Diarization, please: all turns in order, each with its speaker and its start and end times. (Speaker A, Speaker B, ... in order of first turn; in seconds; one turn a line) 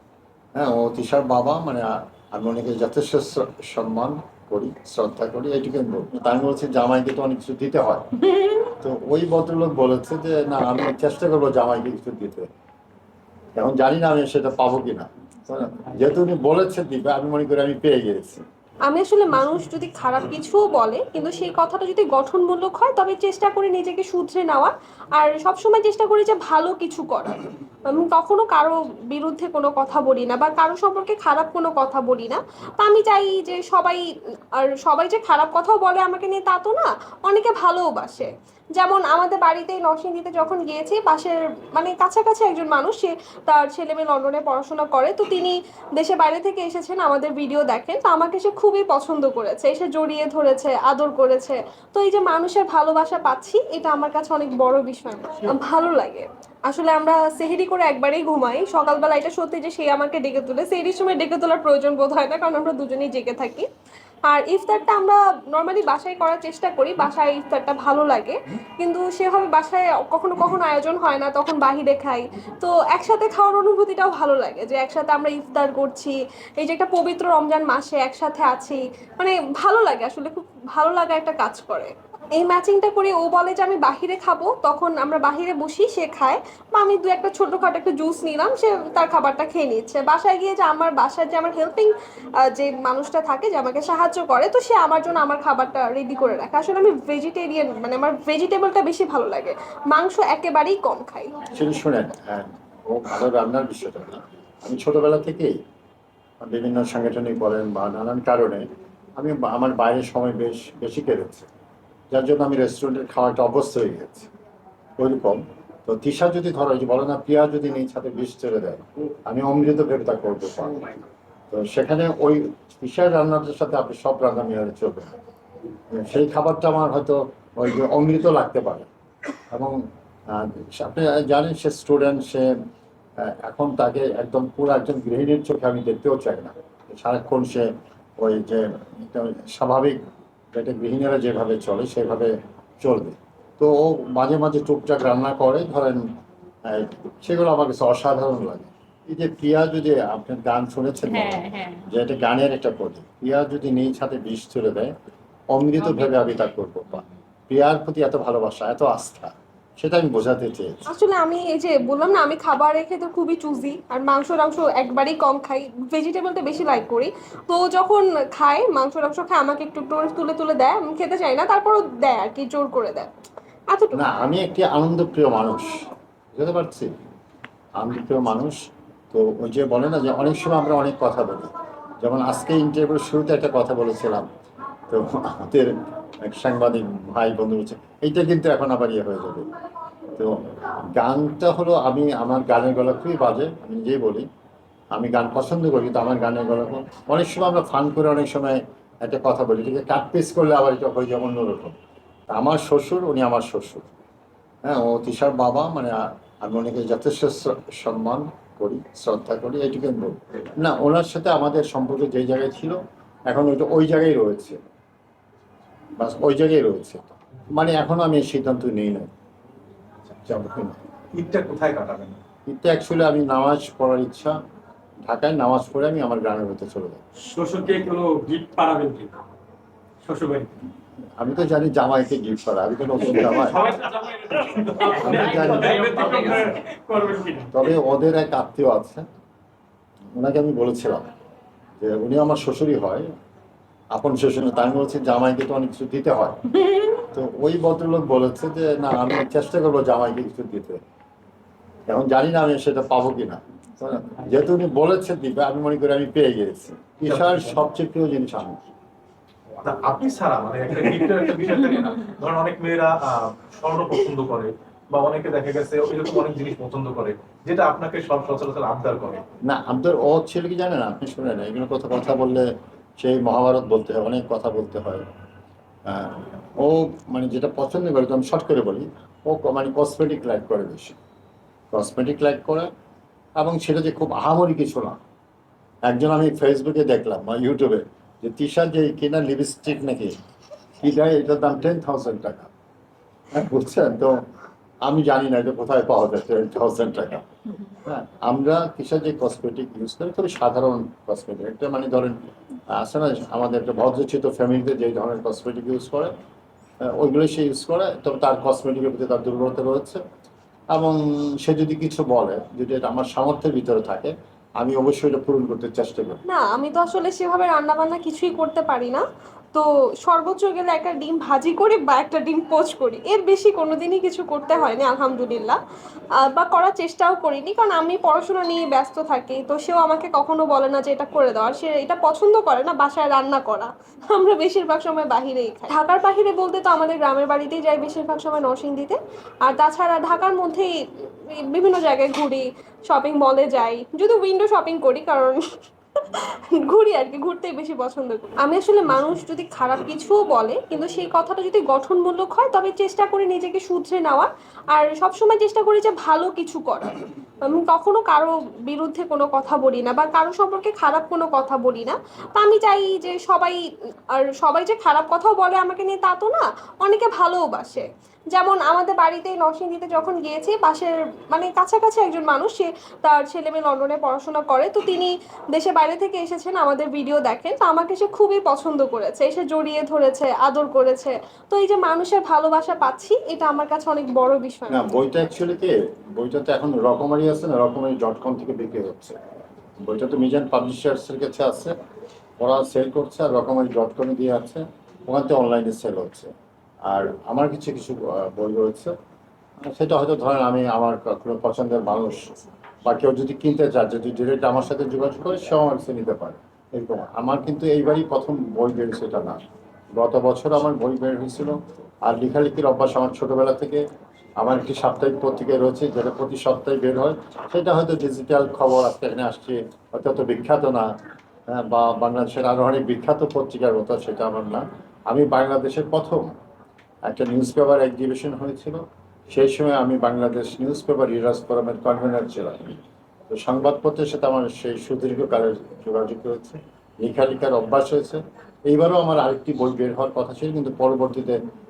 Speaker A: 0.6-8.1
Speaker A: 8.8-12.5
Speaker A: 13.6-18.4
Speaker B: 18.9-34.0
Speaker B: 34.5-63.7
Speaker B: 64.3-101.4
Speaker A: 101.5-105.6
Speaker A: 106.4-111.5
Speaker A: 112.1-114.3
Speaker A: 115.0-121.0
Speaker A: 121.5-125.1
Speaker A: 125.9-128.9
Speaker A: 129.5-132.5
Speaker A: 133.2-140.0
Speaker A: 140.5-146.0
Speaker A: 146.7-154.9
Speaker C: 151.1-151.8
Speaker A: 155.5-160.8
Speaker B: 160.9-173.1
Speaker B: 173.7-174.0
Speaker A: 173.9-175.7
Speaker A: 176.3-176.9
Speaker A: 177.8-178.6
Speaker A: 179.1-181.5
Speaker A: 182.0-184.3
Speaker A: 184.9-189.5
Speaker A: 190.2-194.3
Speaker A: 194.9-201.8
Speaker A: 202.3-203.9
Speaker A: 204.6-214.6
Speaker A: 216.0-219.1
Speaker A: 220.2-220.8
Speaker D: 221.1-222.2
Speaker A: 222.5-224.4
Speaker A: 225.0-227.0
Speaker C: 227.2-229.2
Speaker C: 230.0-230.5
Speaker A: 231.2-233.8
Speaker D: 233.4-236.5
Speaker C: 233.6-237.7
Speaker A: 234.8-235.9
Speaker A: 237.5-239.1
Speaker A: 240.2-241.1
Speaker A: 241.8-243.1
Speaker A: 243.9-246.4
Speaker A: 247.0-250.8
Speaker A: 251.9-258.6
Speaker D: 257.0-257.6
Speaker D: 259.6-269.2
Speaker A: 269.4-275.0
Speaker A: 275.9-281.0
Speaker A: 281.7-282.7
Speaker A: 283.4-285.0
Speaker A: 285.9-290.1
Speaker A: 290.8-292.5
Speaker A: 293.3-294.2
Speaker A: 294.8-302.2
Speaker A: 302.7-306.1
Speaker A: 306.8-310.0
Speaker A: 310.7-316.2
Speaker B: 316.3-325.6
Speaker B: 326.2-345.4
Speaker B: 346.0-363.6
Speaker B: 364.1-384.8
Speaker A: 384.7-389.2
Speaker A: 389.8-391.7
Speaker A: 392.4-396.3
Speaker A: 396.9-398.9
Speaker A: 399.6-409.4
Speaker A: 409.9-413.8
Speaker A: 414.4-420.9
Speaker A: 421.5-426.3
Speaker A: 427.1-441.4